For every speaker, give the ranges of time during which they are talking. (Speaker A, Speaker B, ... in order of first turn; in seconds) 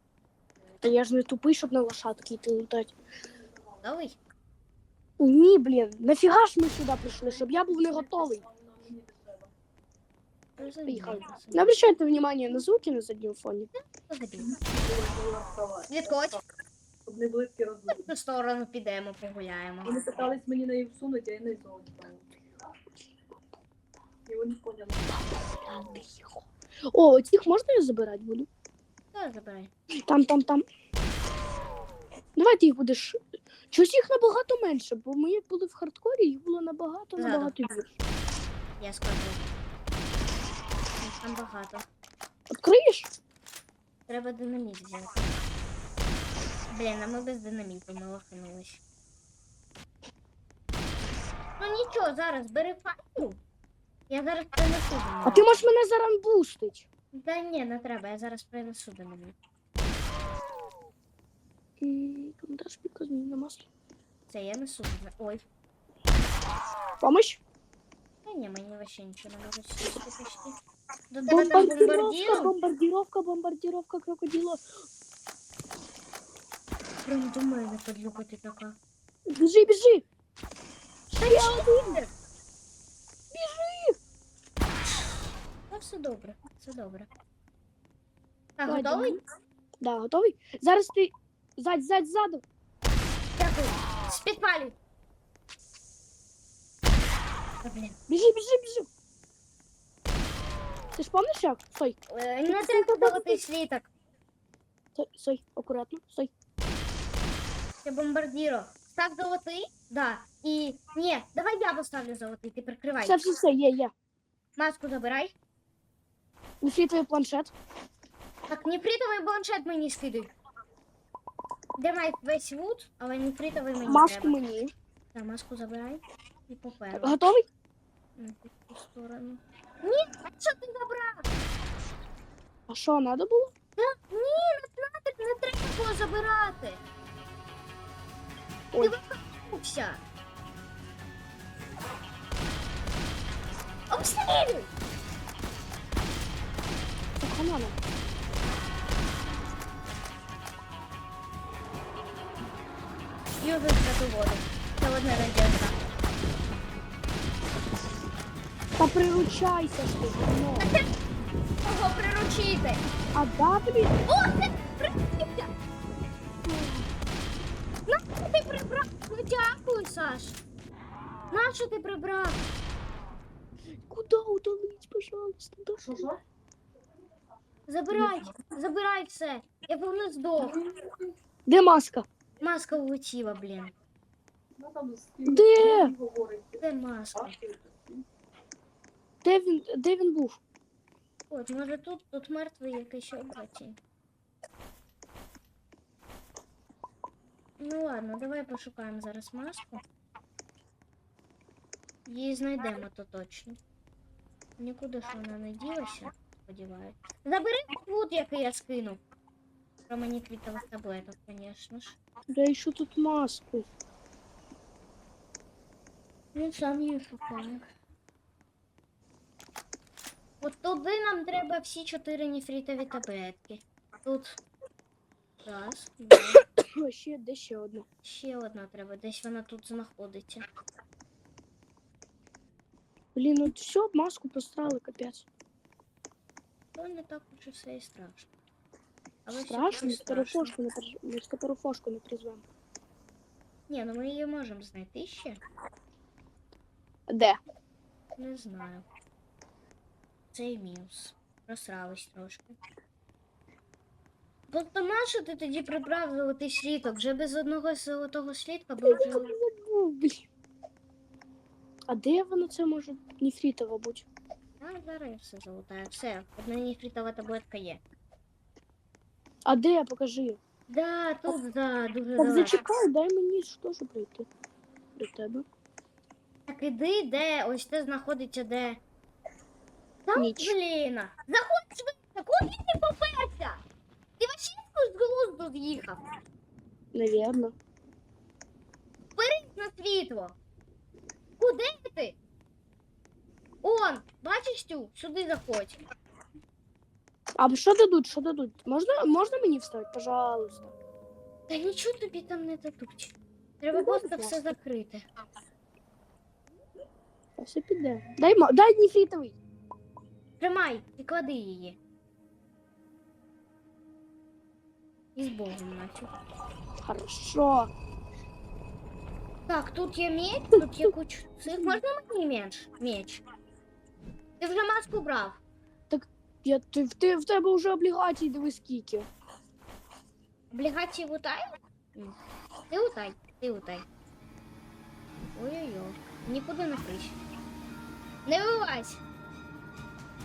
Speaker A: 0.8-2.9, 5.2-8.4, 10.9-13.7, 25.6-28.5, 30.1-30.6, 32.4-38.0, 42.5-43.1, 55.2-56.9, 61.8-63.7, 67.0-67.4, 71.3-74.6, 79.3-80.0, 81.1-82.0, 83.3-84.0, 88.6-89.2, 89.8-92.4, 98.1-98.9, 101.0-103.4, 104.9-106.3, 113.0-113.9, 116.6-117.5, 123.8-124.7, 127.0-127.5, 132.7-133.5, 147.2-147.8, 158.8-160.7, 163.1-164.0, 166.4-166.9, 173.9-176.1, 181.4-182.1, 185.2-185.9, 189.2-190.4, 212.3-213.7, 226.8-227.8, 233.1-235.2, 239.3-242.4, 247.1-247.4, 258.9-260.3, 261.9-264.1, 269.4-270.4, 272.1-274.3, 275.0-275.4, 280.1-280.5, 286.9-287.5, 297.4-300.7, 303.7-304.3, 307.4-309.4, 316.8-317.7, 325.9-329.1
Speaker B: 3.8-4.2, 10.6-11.8, 13.9-14.6, 15.9-16.4, 17.8-20.2, 29.1-29.7, 37.2-37.5, 38.8-39.5, 41.0-41.8, 44.1-45.3, 46.7-48.8, 51.6-53.4, 54.1-55.7, 57.1-59.3, 64.3-65.4, 68.2-70.6, 71.1-72.5, 77.0-78.8, 81.2-82.1, 85.7-87.1, 88.6-89.2, 93.3-94.8, 97.6-98.0, 102.1-103.9, 107.8-113.2, 114.5-115.3, 118.5-120.3, 121.8-124.4, 125.1-127.2, 128.2-131.3, 133.8-136.8, 138.8-140.0, 143.9-144.7, 153.4-155.8, 160.6-160.9, 161.6-162.8, 164.1-165.5, 167.9-170.4, 171.3-172.4, 177.7-180.6, 182.4-183.7, 186.6-187.4, 191.3-193.8, 197.6-199.8, 202.1-203.6, 204.6-209.0, 209.9-212.0, 216.3-217.6, 220.4-224.4, 225.4-226.4, 228.0-230.4, 236.8-238.3, 239.2-240.5, 243.7-245.4, 248.2-248.8, 250.3-252.6, 254.5-259.3, 264.6-267.8, 270.7-272.6, 276.5-278.8, 280.0-283.6, 284.2-286.0, 289.1-290.4, 291.4-292.2, 293.6-295.8, 301.5-305.1, 310.4-311.8, 315.1-316.1, 319.5-323.2, 324.4-325.4, 330.5-332.1, 332.7-333.9, 335.3-337.2, 338.2-339.0
Speaker C: 15.1-15.6, 17.1-17.8, 20.2-22.2, 24.3-24.9, 184.8-185.0